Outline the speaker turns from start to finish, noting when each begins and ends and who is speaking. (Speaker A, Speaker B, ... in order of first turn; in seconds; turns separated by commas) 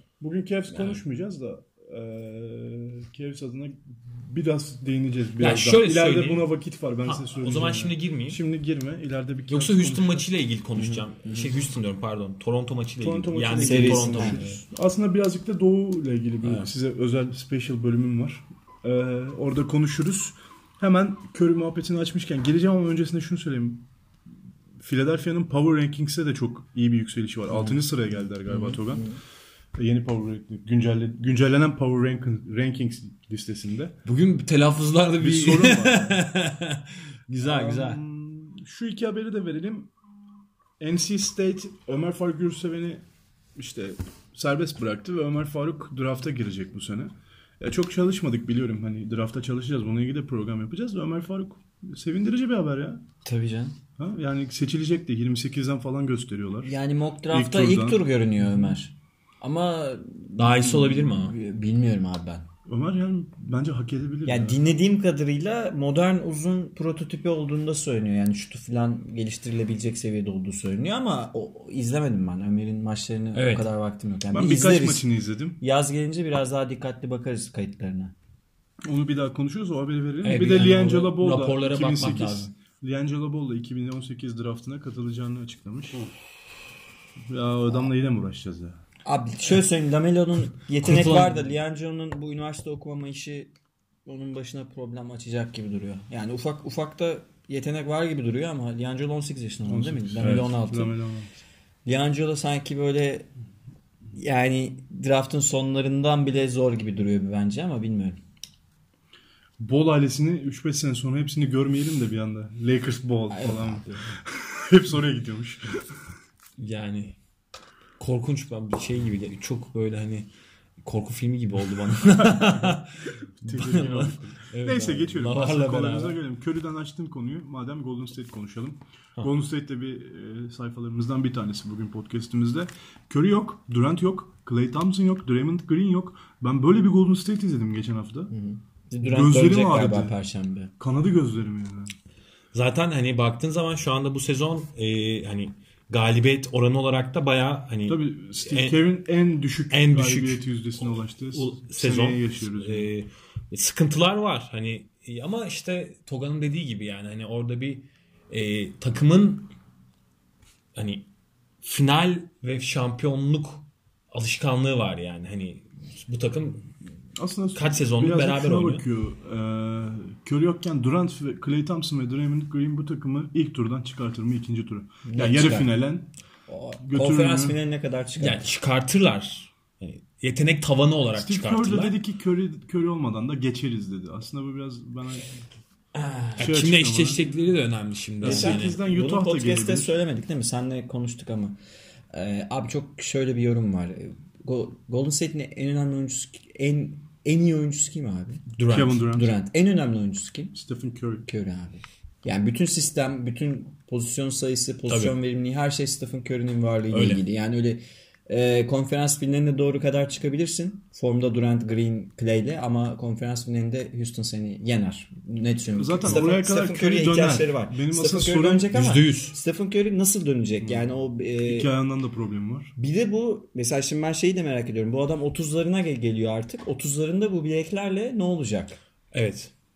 Speaker A: 0.2-10.3, Speaker B: 0.7-1.0, Speaker B: 5.4-6.5, Speaker B: 7.0-8.4, Speaker B: 9.5-14.6, Speaker C: 10.8-11.5, Speaker A: 13.0-23.9, Speaker C: 13.6-14.4, Speaker B: 16.4-16.7, Speaker A: 24.8-29.1, Speaker C: 28.5-29.1, Speaker A: 29.8-34.0, Speaker B: 34.0-38.0, Speaker A: 35.2-36.3, Speaker A: 37.4-39.9, Speaker A: 40.8-43.0, Speaker A: 43.6-53.0, Speaker C: 53.2-53.8, Speaker A: 54.0-56.8, Speaker C: 56.6-62.5, Speaker A: 57.3-58.8, Speaker B: 60.4-61.4, Speaker A: 62.7-64.6, Speaker C: 64.3-75.1, Speaker B: 73.3-73.7, Speaker A: 74.3-75.6, Speaker C: 75.6-78.1, Speaker A: 78.9-86.0, Speaker B: 80.2-82.5, Speaker A: 87.3-88.8, Speaker C: 89.0-93.5, Speaker B: 90.8-91.5, Speaker C: 94.1-100.9, Speaker A: 99.7-101.3, Speaker B: 100.2-100.5, Speaker C: 101.8-103.3, Speaker C: 104.1-108.2, Speaker A: 109.6-116.0, Speaker C: 113.3-114.2, Speaker B: 116.6-117.2, Speaker B: 118.0-120.3, Speaker B: 120.8-126.2, Speaker A: 122.2-122.8, Speaker A: 123.4-138.3, Speaker C: 138.3-140.7, Speaker A: 139.0-140.2, Speaker A: 140.8-141.9, Speaker B: 142.5-148.8, Speaker A: 147.9-152.9, Speaker B: 149.7-150.4, Speaker B: 151.3-159.5, Speaker B: 160.8-161.1, Speaker B: 161.6-166.7, Speaker A: 167.2-176.1, Speaker B: 167.6-168.8, Speaker C: 175.1-175.7, Speaker C: 176.5-178.5, Speaker A: 176.8-177.6, Speaker B: 178.2-182.0, Speaker A: 181.2-185.4, Speaker B: 185.9-188.8, Speaker A: 186.4-187.3, Speaker A: 188.2-190.0, Speaker C: 188.2-191.6, Speaker C: 192.1-198.5, Speaker B: 198.6-199.1, Speaker A: 198.7-199.4, Speaker C: 199.1-200.6, Speaker A: 200.5-201.3, Speaker C: 201.2-221.7, Speaker B: 204.9-205.2, Speaker B: 206.9-207.2, Speaker A: 215.8-218.9, Speaker B: 218.7-219.4, Speaker A: 220.6-220.9, Speaker A: 221.4-222.8, Speaker C: 222.8-228.8, Speaker B: 229.1-229.5